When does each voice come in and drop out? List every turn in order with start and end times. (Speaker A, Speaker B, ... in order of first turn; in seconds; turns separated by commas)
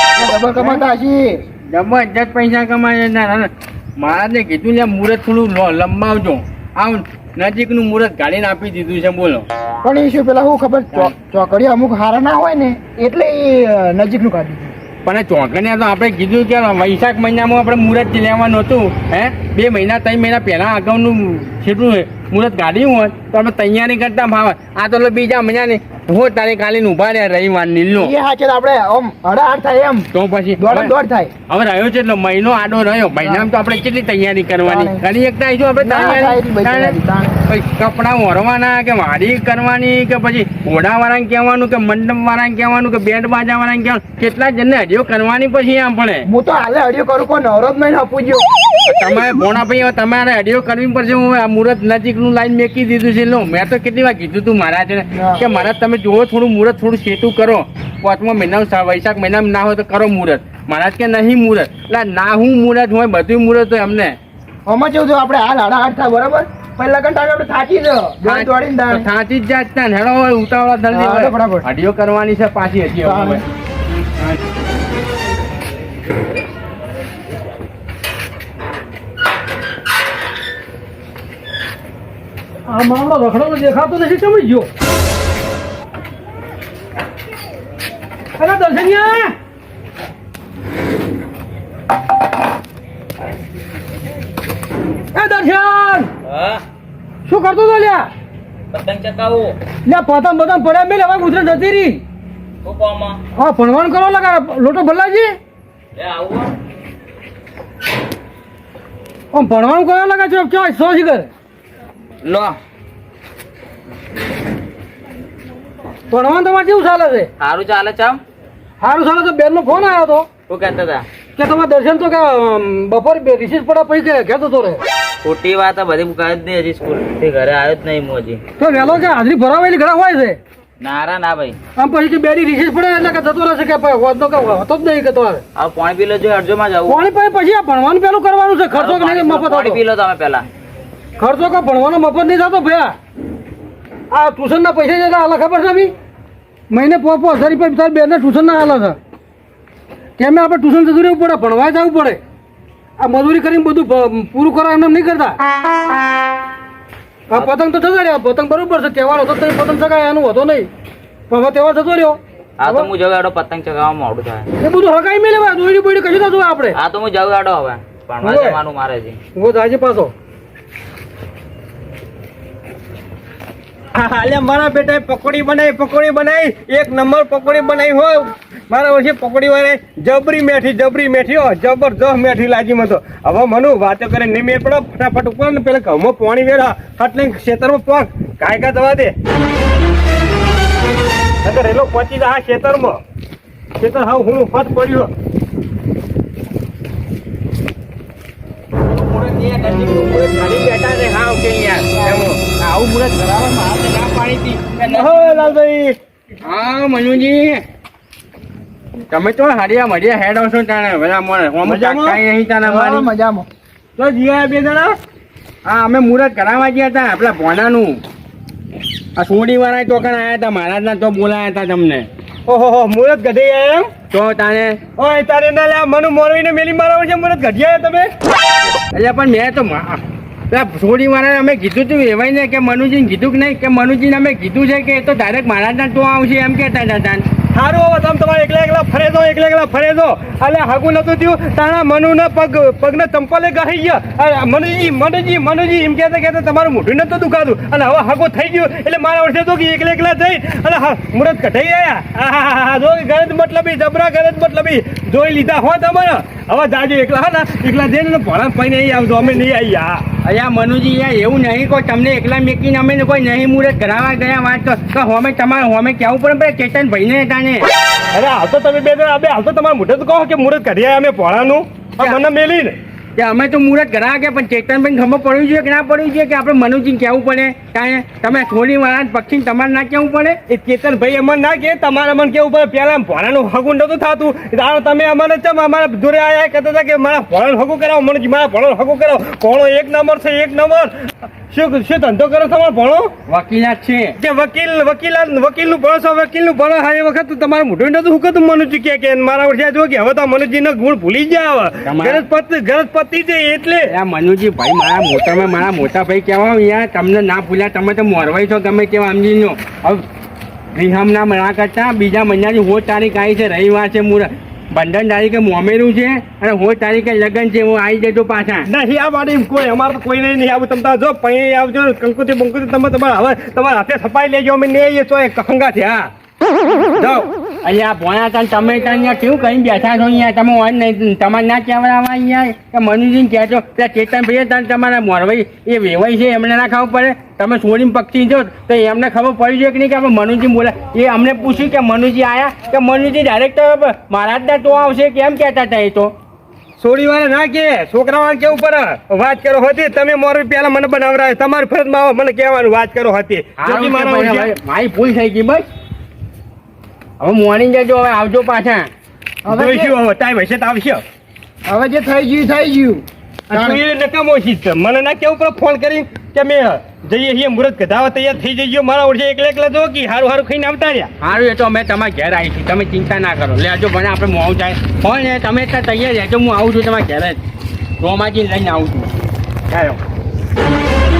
Speaker A: 0.2-1.4, Speaker B: 1.7-9.4, Speaker A: 9.8-14.7, Speaker B: 15.0-28.1, Speaker A: 27.9-31.3, Speaker B: 30.1-30.9, Speaker B: 31.5-46.3, Speaker A: 34.6-35.0, Speaker A: 35.8-37.3, Speaker A: 46.2-48.5, Speaker B: 48.9-64.2, Speaker A: 55.1-55.5, Speaker A: 64.7-69.0, Speaker B: 68.2-73.4, Speaker A: 70.9-71.7, Speaker A: 73.0-73.4, Speaker C: 82.7-84.7, Speaker C: 88.4-89.3, Speaker C: 95.1-96.1, Speaker D: 96.2-96.6, Speaker C: 97.2-98.1, Speaker D: 98.7-99.6, Speaker C: 99.8-102.0, Speaker D: 102.6-103.2, Speaker C: 103.3-105.4, Speaker D: 106.0-106.5, Speaker C: 109.3-111.3, Speaker D: 112.2-112.6, Speaker C: 116.1-117.3, Speaker D: 117.4-118.2, Speaker C: 118.8-120.3, Speaker D: 120.5-121.1, Speaker C: 121.3-124.8, Speaker D: 125.2-128.4, Speaker C: 128.6-130.4, Speaker D: 130.8-131.6, Speaker C: 131.8-135.4, Speaker D: 135.5-137.1, Speaker C: 136.8-139.8, Speaker D: 138.7-140.4, Speaker C: 141.2-142.9, Speaker C: 144.1-145.9, Speaker C: 146.7-149.0, Speaker C: 150.2-152.2, Speaker C: 153.0-155.4, Speaker C: 157.3-160.7, Speaker C: 161.3-162.9, Speaker D: 162.6-164.5, Speaker C: 164.6-166.8, Speaker D: 166.7-169.2, Speaker C: 168.2-168.6, Speaker C: 169.3-170.1, Speaker E: 173.9-189.1, Speaker E: 191.4-193.0, Speaker E: 193.8-195.1, Speaker B: 198.9-205.3, Speaker E: 204.8-206.0, Speaker B: 206.4-207.6, Speaker B: 209.1-213.1, Speaker E: 211.6-212.2, Speaker A: 212.6-213.5, Speaker E: 214.0-214.9, Speaker B: 215.6-218.0, Speaker B: 219.2-222.1, Speaker E: 222.5-223.9, Speaker B: 224.1-224.8, Speaker E: 224.9-228.1, Speaker B: 228.9-237.2, Speaker E: 237.5-260.0, Speaker B: 260.2-267.7, Speaker E: 268.1-272.8, Speaker B: 273.1-280.4, Speaker E: 280.5-293.1, Speaker B: 293.3-294.1, Speaker E: 294.2-303.9, Speaker B: 301.8-302.2, Speaker B: 303.9-310.0, Speaker B: 310.7-318.7, Speaker E: 318.6-326.1, Speaker E: 326.9-327.3, Speaker B: 327.6-346.1, Speaker E: 346.8-354.5, Speaker B: 353.6-355.6, Speaker B: 357.2-358.9, Speaker A: 359.4-360.0, Speaker E: 359.5-361.0, Speaker A: 361.7-363.8, Speaker E: 363.5-371.1, Speaker B: 371.2-377.4, Speaker B: 378.0-379.2, Speaker B: 379.7-380.0